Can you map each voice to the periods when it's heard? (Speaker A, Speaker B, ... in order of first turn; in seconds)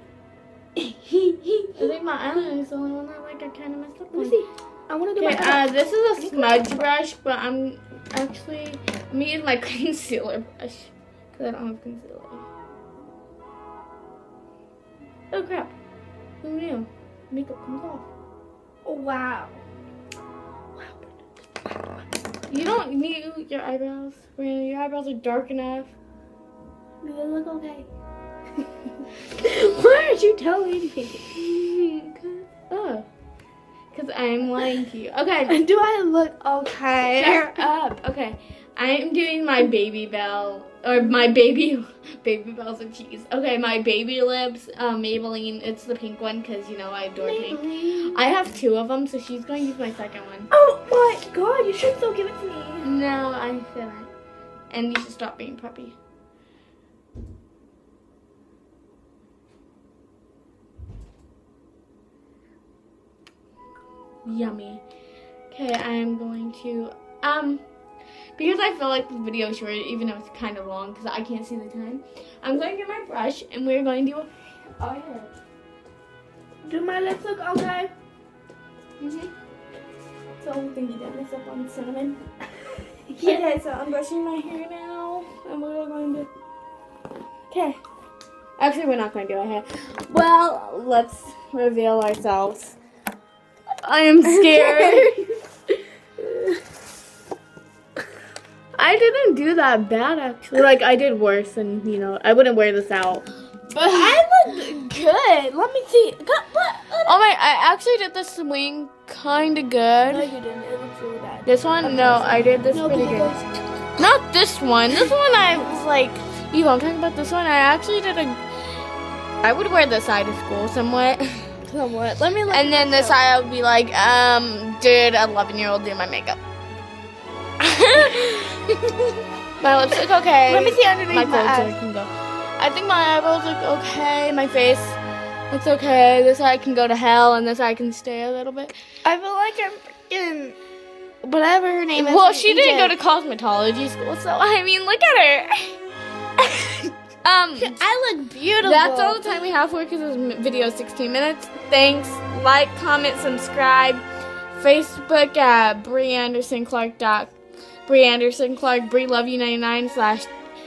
Speaker A: 0.8-1.9, 4.1-6.9, 18.9-19.6, 20.8-22.1, 27.0-27.9, 29.4-31.4, 35.5-37.7, 47.2-48.2, 50.5-52.9, 76.6-77.9, 83.1-83.4, 94.3-95.3, 96.2-96.6, 103.8-107.2, 110.1-113.6, 121.7-123.2, 130.5-131.8, 139.1-140.6, 141.2-142.9, 147.6-149.4
Speaker B: 1.8-4.4, 5.2-12.4, 15.3-15.7, 16.4-18.1, 22.5-25.9, 31.4-32.0, 32.7-33.1, 33.9-35.6, 37.2-50.5, 52.8-54.1, 54.7-56.0, 64.2-64.8, 65.5-67.6, 68.4-75.3, 79.0-79.3, 80.4-82.2, 83.1-86.3, 87.5-87.8, 88.6-92.8, 93.8-95.2, 98.8-104.2, 107.1-110.3, 111.5-113.3, 114.0-118.4, 119.4-121.5, 122.5-126.4, 127.6-128.6, 129.6-138.8, 141.9-145.8, 146.4-147.8, 148.6-157.3, 157.9-160.3